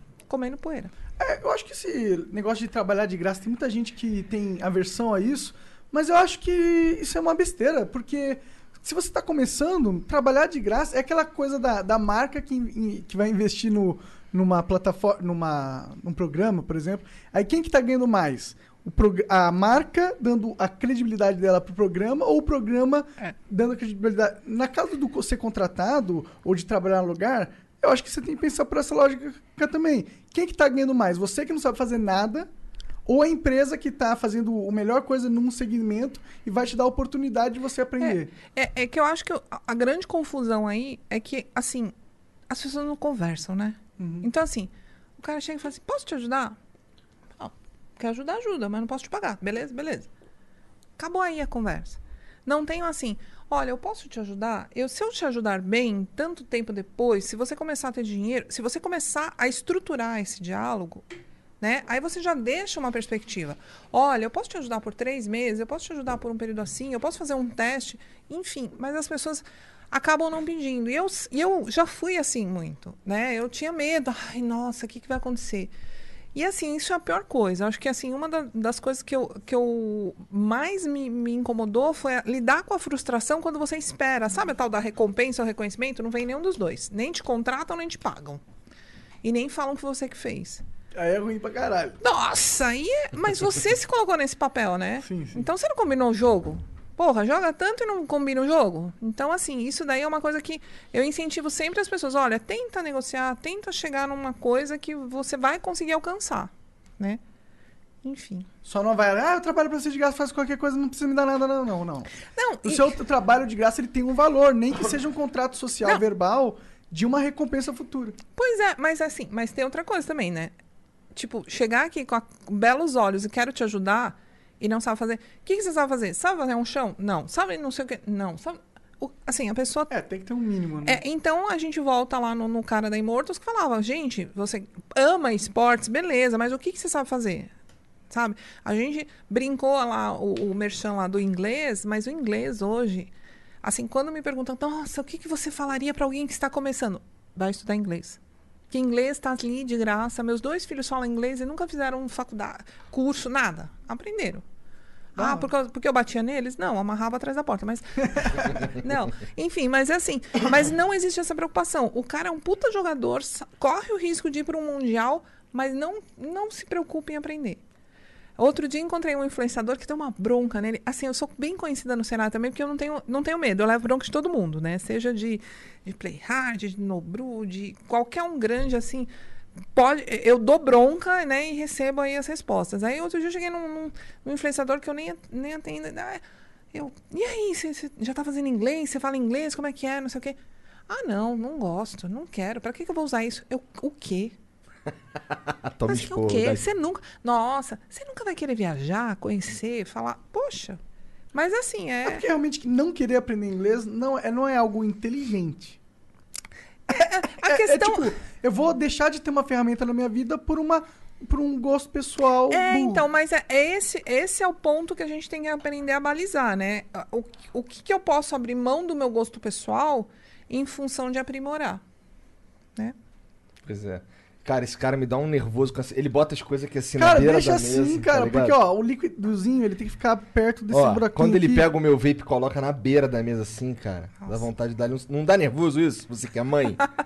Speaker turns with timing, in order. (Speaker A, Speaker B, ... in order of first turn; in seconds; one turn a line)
Speaker A: 0.3-0.9
Speaker B: 1.2-32.5
Speaker B: 33.1-38.3
Speaker A: 38.0-41.9
Speaker A: 42.5-46.6
Speaker B: 44.0-44.3
Speaker A: 47.4-50.1
Speaker A: 51.0-61.0
Speaker A: 61.6-75.7
Speaker A: 76.3-88.4
Speaker A: 89.2-90.6
Speaker B: 90.9-92.0
Speaker A: 92.0-107.2
Speaker B: 95.0-95.4
Speaker A: 108.0-108.5
Speaker B: 108.7-112.1
Speaker A: 112.3-113.0
Speaker B: 112.7-118.2
Speaker A: 118.4-120.5
Speaker A: 121.2-129.9
Speaker B: 129.9-131.0
Speaker A: 130.8-137.5
Speaker A: 138.1-143.1
Speaker A: 143.6-148.2
Speaker A: 148.7-154.4
Speaker B: 155.2-155.5
Speaker A: 155.2-167.6
Speaker A: 168.4-179.1
Speaker A: 179.7-186.2
Speaker A: 186.7-190.4
Speaker A: 190.9-194.3
Speaker C: 195.3-196.6
Speaker A: 195.8-200.8
Speaker A: 201.3-202.3
Speaker B: 202.1-205.8
Speaker A: 206.9-208.1
Speaker B: 206.9-213.1
Speaker A: 212.5-221.8
Speaker C: 223.6-228.6
Speaker B: 227.0-231.7
Speaker C: 230.7-236.8